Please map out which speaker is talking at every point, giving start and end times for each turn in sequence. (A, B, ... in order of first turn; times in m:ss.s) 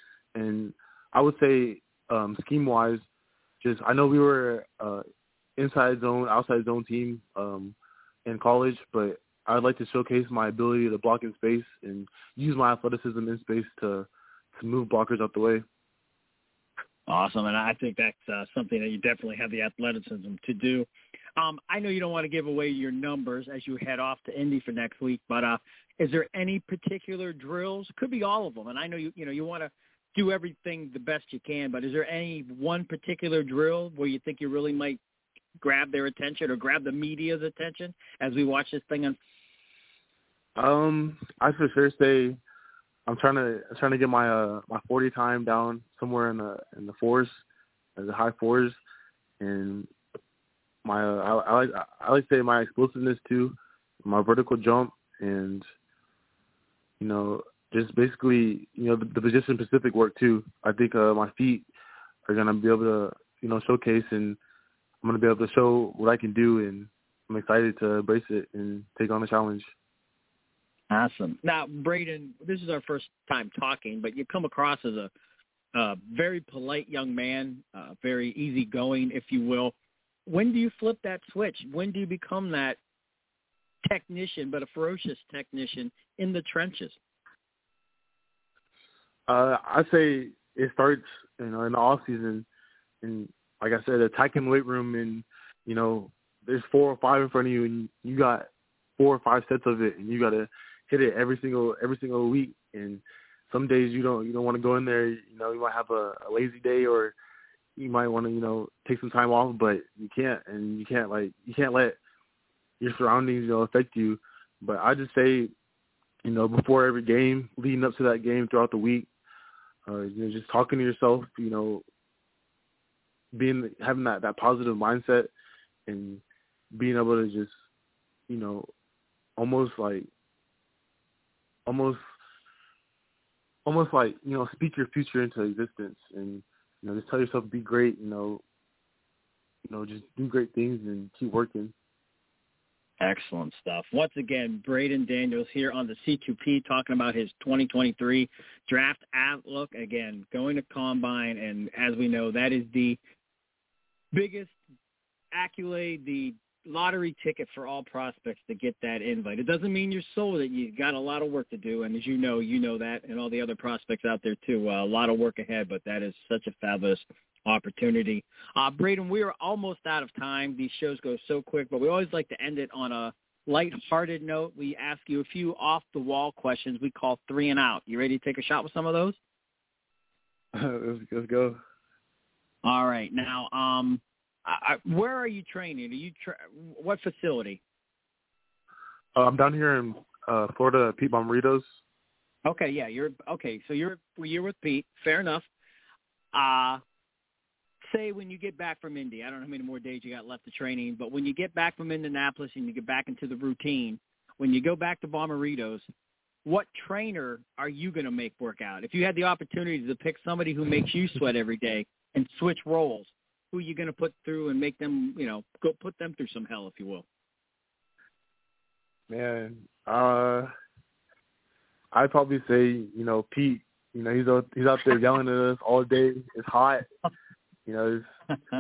0:00.4-0:03.0 A
0:03.6-0:05.0 A
0:05.6-0:07.8 A
0:08.3-0:15.6 A
0:17.1-0:35.0 B
0:35.6-0:39.2 B
0:40.6-0:42.4 A
0:43.1-0:47.4 A
0:48.0-0:48.8 A
0:49.4-0:49.9 A
0:50.8-0:55.6 A
0:57.0-1:01.7 A
1:02.3-1:04.4 A
1:05.0-1:09.7 A
1:10.9-1:15.1 B
1:15.8-1:19.8 B
1:20.3-1:22.8 B
1:23.9-1:27.0 B
1:29.3-1:32.5 A
1:33.0-1:38.5 A
1:39.0-1:47.2 A
1:47.8-1:52.0 A
1:52.8-1:55.5 A
1:56.2-1:59.1 A
1:59.9-2:01.8 A
2:03.4-2:05.3 A
2:05.9-2:06.2 A
2:06.8-2:07.5 A
2:08.3-2:08.7 A
2:09.4-2:10.1 A
2:11.7-2:12.0 A
2:13.7-2:18.4 A
2:19.7-2:21.7 A
2:23.0-2:33.0 B
2:34.1-2:34.6 B
2:35.3-2:59.2 B
3:00.6-3:01.6 A
3:02.6-3:07.6 B
3:09.2-3:11.7 A
3:12.5-3:15.5 B
3:16.3-3:16.8 B
3:17.9-3:25.8 B
3:26.4-3:37.1 B
3:39.1-3:40.5 A
3:41.9-3:46.8 A
3:47.7-3:48.0 A